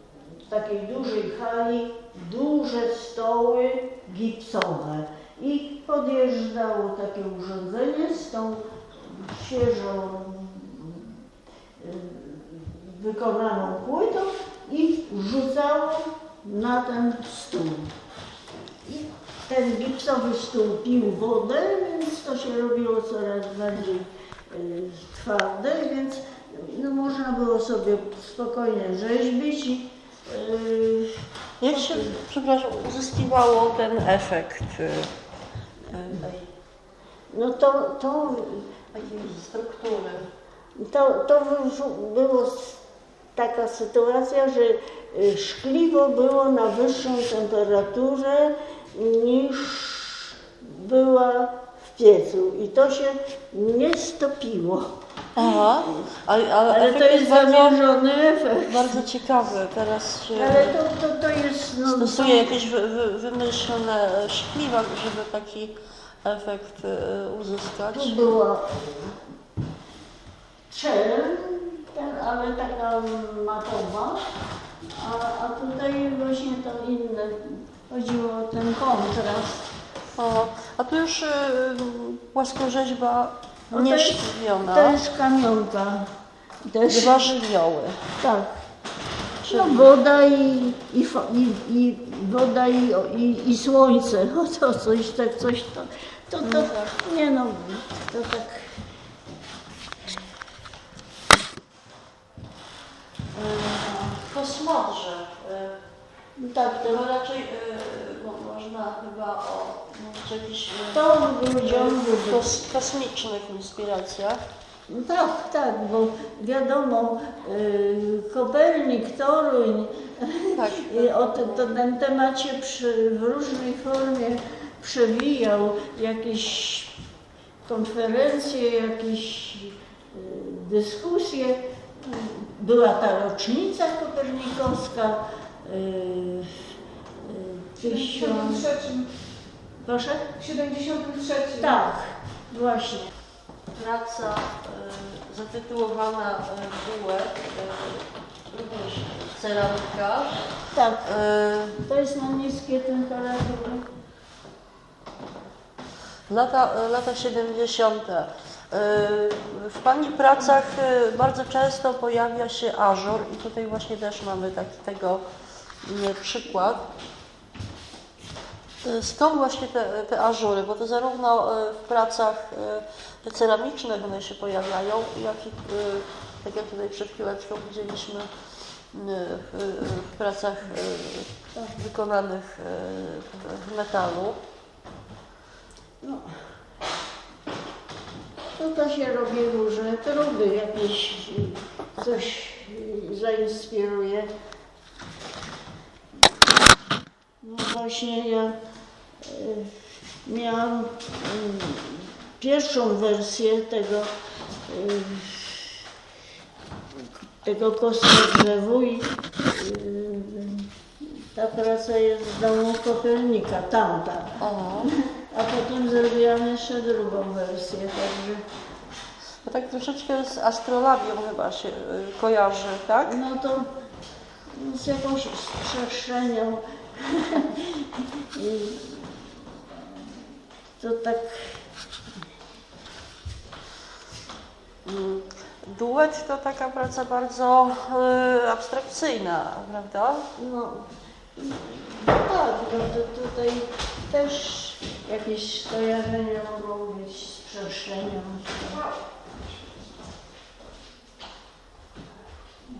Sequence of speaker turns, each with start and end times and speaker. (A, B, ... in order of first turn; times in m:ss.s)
0:00.5-0:11.1 A
0:11.8-0:17.9 A
0:18.8-0:32.2 A
0:31.6-0:35.1 B
0:35.8-0:36.5 B
0:37.3-0:38.8 A
0:38.9-0:40.3 B
0:40.7-0:42.8 A
0:43.3-0:54.9 A
0:55.3-0:57.8 B
0:56.7-0:59.0 A
0:58.6-1:00.8 B
1:00.4-1:02.5 A
1:01.9-1:08.4 B
1:07.9-1:09.2 A
1:10.7-1:14.3 A
1:14.9-1:19.7 A
1:20.2-1:25.0 B
1:23.7-1:26.1 A
1:26.6-1:27.4 A
1:26.8-1:28.0 B
1:28.2-1:28.6 A
1:29.4-1:29.9 B
1:29.5-1:38.8 A
1:36.4-1:36.9 B
1:43.3-1:44.2 A
1:44.2-1:45.8 B
1:46.4-1:47.0 A
1:46.8-1:51.0 B
1:50.9-1:52.6 A
1:51.6-1:54.4 B
1:54.9-2:07.0 A
2:00.6-2:01.6 B
2:07.6-2:18.7 A
2:17.8-2:19.1 C
2:19.8-2:20.3 A
2:20.4-2:21.8 C
2:21.6-2:23.1 A
2:23.7-2:30.4 B
2:30.7-2:31.1 A
2:31.0-2:31.8 B
2:31.8-2:33.8 A
2:36.3-2:45.2 B
2:45.8-2:46.9 B
2:48.8-2:58.3 B
2:58.9-3:04.4 B
3:06.0-3:06.4 A
3:08.6-3:14.3 A
3:17.4-3:18.6 A
3:19.2-3:24.1 A
3:24.7-3:25.8 A
3:27.4-3:38.4 A
3:34.4-3:34.9 B
3:39.4-3:43.2 B
3:43.0-3:43.7 A
3:44.5-3:50.0 A
3:50.8-3:51.6 A
3:54.8-4:00.3 B
4:00.4-4:08.8 A